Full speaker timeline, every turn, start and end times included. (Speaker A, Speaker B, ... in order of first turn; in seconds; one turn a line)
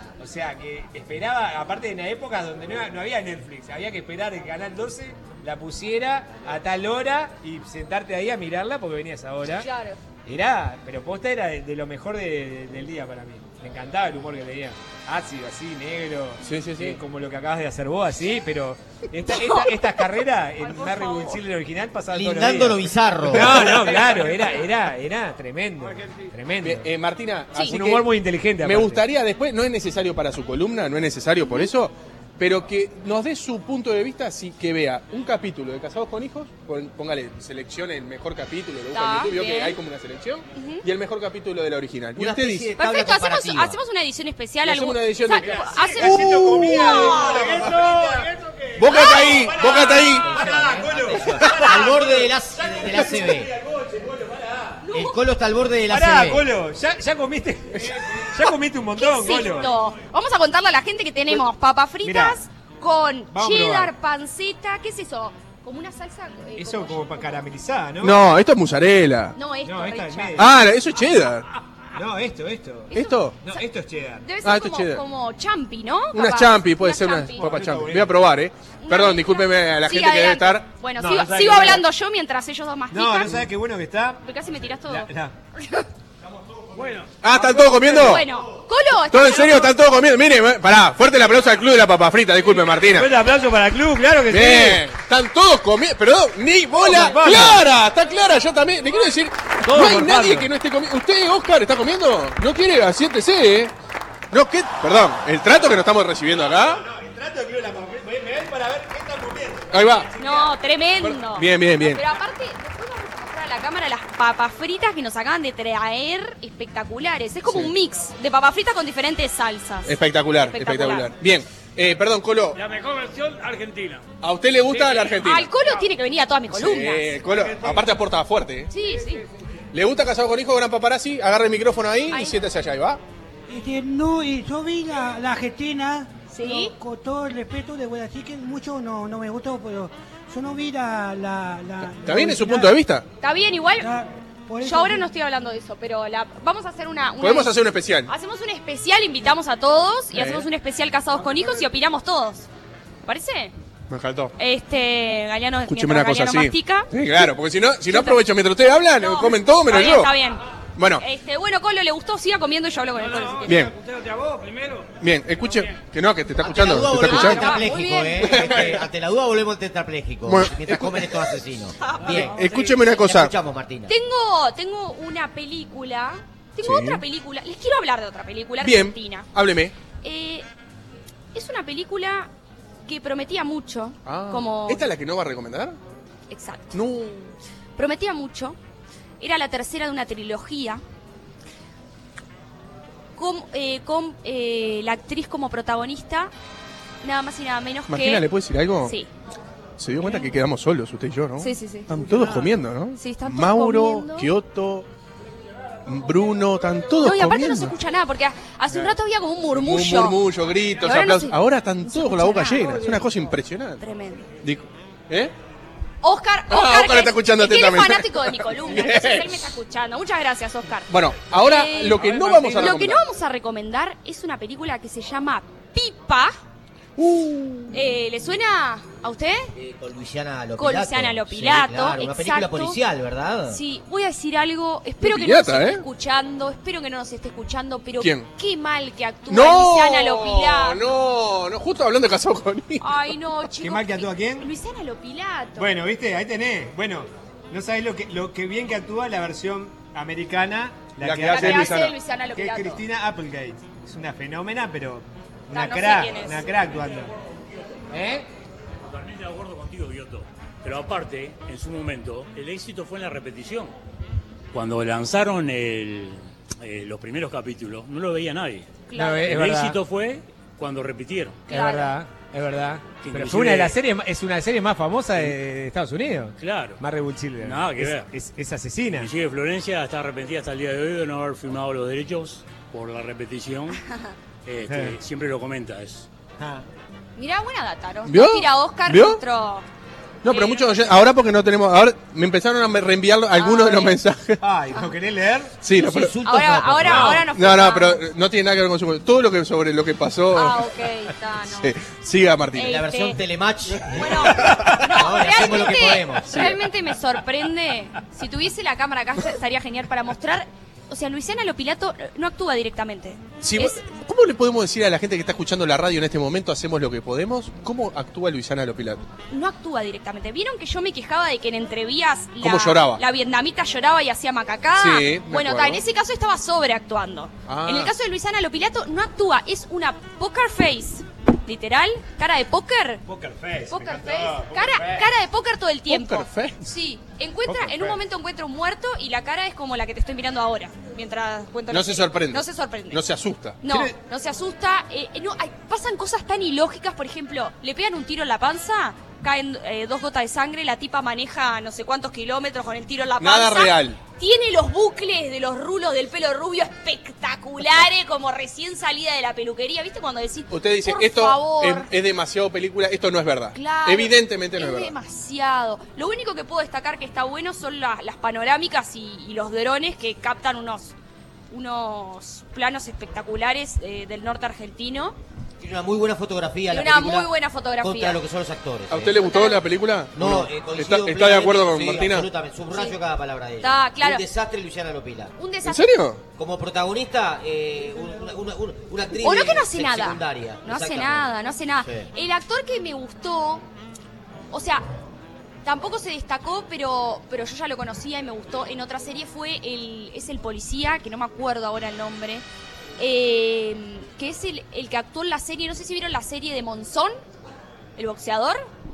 Speaker A: 0.2-9.7
Speaker B: 9.6-10.0
Speaker A: 10.2-26.9
Speaker C: 16.4-17.0
Speaker B: 19.3-19.8
Speaker B: 20.6-21.4
Speaker D: 22.1-23.9
Speaker E: 23.9-24.6
Speaker C: 26.6-42.7
Speaker A: 27.6-29.0
Speaker B: 38.9-39.8
Speaker B: 40.5-40.8
Speaker D: 42.1-43.8
Speaker B: 42.8-47.5
Speaker C: 44.6-47.2
Speaker A: 45.4-48.3
Speaker E: 47.1-48.7
Speaker C: 48.8-50.3
Speaker B: 48.8-49.5
Speaker A: 48.9-54.8
Speaker D: 50.2-53.5
Speaker B: 54.8-55.2
Speaker D: 54.9-56.5
Speaker A: 55.9-59.7
Speaker B: 58.9-67.2
Speaker A: 62.0-62.4
Speaker A: 63.3-63.9
Speaker A: 66.5-68.2
Speaker C: 68.0-69.4
Speaker B: 69.3-70.5
Speaker A: 69.6-70.5
Speaker C: 70.3-71.5
Speaker A: 71.9-74.3
Speaker C: 72.9-73.4
Speaker B: 72.9-73.6
Speaker B: 74.2-77.5
Speaker C: 74.4-75.0
Speaker C: 76.1-80.7
Speaker A: 77.3-78.2
Speaker B: 78.8-83.5
Speaker A: 81.0-81.8
Speaker A: 82.9-84.2
Speaker B: 84.2-85.9
Speaker A: 84.8-85.3
Speaker E: 86.7-87.9
Speaker C: 87.2-88.3
Speaker B: 87.9-89.7
Speaker C: 89.1-93.1
Speaker A: 92.9-94.8
Speaker C: 94.3-103.7
Speaker A: 96.8-97.6
Speaker A: 99.6-100.5
Speaker C: 104.3-106.8
Speaker A: 106.5-110.6
Speaker C: 109.7-110.1
Speaker B: 110.2-121.1
Speaker C: 111.0-112.0
Speaker C: 117.4-117.7
Speaker C: 119.8-122.6
Speaker E: 122.5-124.0
Speaker C: 124.2-125.5
Speaker E: 124.6-125.9
Speaker B: 125.2-127.1
Speaker C: 126.5-128.7
Speaker E: 127.3-127.9
Speaker B: 128.7-129.2
Speaker E: 128.9-129.2
Speaker C: 129.7-133.0
Speaker B: 132.1-132.4
Speaker F: 133.5-142.8
Speaker B: 136.3-136.7
Speaker C: 142.0-143.0
Speaker B: 143.2-143.9
Speaker F: 143.8-145.1
Speaker B: 144.6-152.5
Speaker C: 147.2-148.1
Speaker C: 150.1-150.5
Speaker B: 153.0-153.5
Speaker C: 153.9-154.3
Speaker B: 154.4-156.9
Speaker C: 155.7-160.1
Speaker B: 157.9-158.2
Speaker B: 158.9-160.4
Speaker C: 160.8-161.0
Speaker B: 161.0-163.6
Speaker E: 162.9-165.7
Speaker C: 163.4-163.7
Speaker C: 165.0-167.6
Speaker D: 166.4-173.9
Speaker B: 166.9-168.8
Speaker C: 168.2-168.8
Speaker C: 170.2-171.3
Speaker B: 171.8-172.8
Speaker C: 172.1-173.3
Speaker B: 173.9-179.3
Speaker C: 176.6-177.0
Speaker C: 178.6-179.7
Speaker B: 180.0-180.4
Speaker B: 181.3-182.3
Speaker B: 182.8-184.9
Speaker C: 184.0-185.8
Speaker B: 186.3-186.8
Speaker C: 186.7-187.3
Speaker B: 187.8-188.6
Speaker B: 189.2-190.8
Speaker B: 193.2-196.3
Speaker B: 197.0-198.3
Speaker C: 197.9-199.0
Speaker B: 198.8-199.1
Speaker C: 199.8-204.9
Speaker B: 201.4-204.3
Speaker C: 205.8-207.7
Speaker B: 207.0-210.2
Speaker C: 209.5-213.8
Speaker B: 210.8-213.2
Speaker B: 213.8-214.3
Speaker C: 214.4-215.3
Speaker B: 216.0-226.3
Speaker C: 216.5-219.5
Speaker C: 220.9-223.0
Speaker E: 222.1-222.6
Speaker C: 227.0-227.8
Speaker B: 227.7-229.5
Speaker D: 229.6-233.6
Speaker B: 230.6-232.8
Speaker B: 233.5-240.8
Speaker C: 235.0-235.8
Speaker C: 238.0-238.3
Speaker C: 239.3-243.0
Speaker B: 242.8-245.7
Speaker A: 243.6-244.5
Speaker A: 245.6-257.1
Speaker C: 251.0-251.9
Speaker B: 251.3-252.8
Speaker B: 255.5-256.5
Speaker A: 257.9-258.3
Speaker G: 258.8-263.7
Speaker G: 264.5-271.4
Speaker B: 268.9-269.3
Speaker A: 268.9-269.8
Speaker A: 271.5-279.1
Speaker B: 271.5-271.9
Speaker G: 273.0-273.8
Speaker G: 276.4-276.8
Speaker G: 277.4-278.1
Speaker G: 278.9-283.8
Speaker G: 284.4-286.1
Speaker A: 284.7-284.9
Speaker A: 286.4-286.6
Speaker B: 287.1-289.6
Speaker C: 288.1-289.2
Speaker C: 290.2-294.4
Speaker B: 290.3-290.8
Speaker B: 293.3-294.0
Speaker A: 294.4-295.6
Speaker C: 295.6-296.1
Speaker D: 295.7-297.2
Speaker B: 296.2-298.0
Speaker C: 296.9-300.6
Speaker A: 296.9-297.2
Speaker B: 300.3-301.7
Speaker C: 301.5-302.8
Speaker B: 302.5-303.2
Speaker D: 302.6-306.5
Speaker B: 303.8-313.8
Speaker A: 304.4-304.8
Speaker C: 306.3-306.6
Speaker C: 313.4-319.0
Speaker B: 319.3-333.0
Speaker C: 322.4-323.0
Speaker C: 324.8-325.8
Speaker C: 327.5-327.9
Speaker A: 333.1-335.1
Speaker B: 333.7-343.0
Speaker C: 335.9-336.6
Speaker A: 337.5-338.0
Speaker C: 341.7-343.7
Speaker B: 343.6-361.9
Speaker C: 353.2-354.0
Speaker C: 360.5-364.9
Speaker B: 363.5-370.9
Speaker B: 371.5-375.2
Speaker D: 375.6-379.2
Speaker B: 376.7-378.2
Speaker C: 378.9-382.3
Speaker B: 379.2-379.6
Speaker D: 380.1-385.3
Speaker B: 382.7-383.0
Speaker B: 383.6-384.2
Speaker B: 385.4-385.9
Speaker C: 385.6-386.2
Speaker D: 386.4-391.3
Speaker B: 389.2-393.6
Speaker D: 391.8-392.1
Speaker B: 394.5-394.8
Speaker B: 395.6-402.4
Speaker B: 403.0-407.1
Speaker B: 407.9-408.6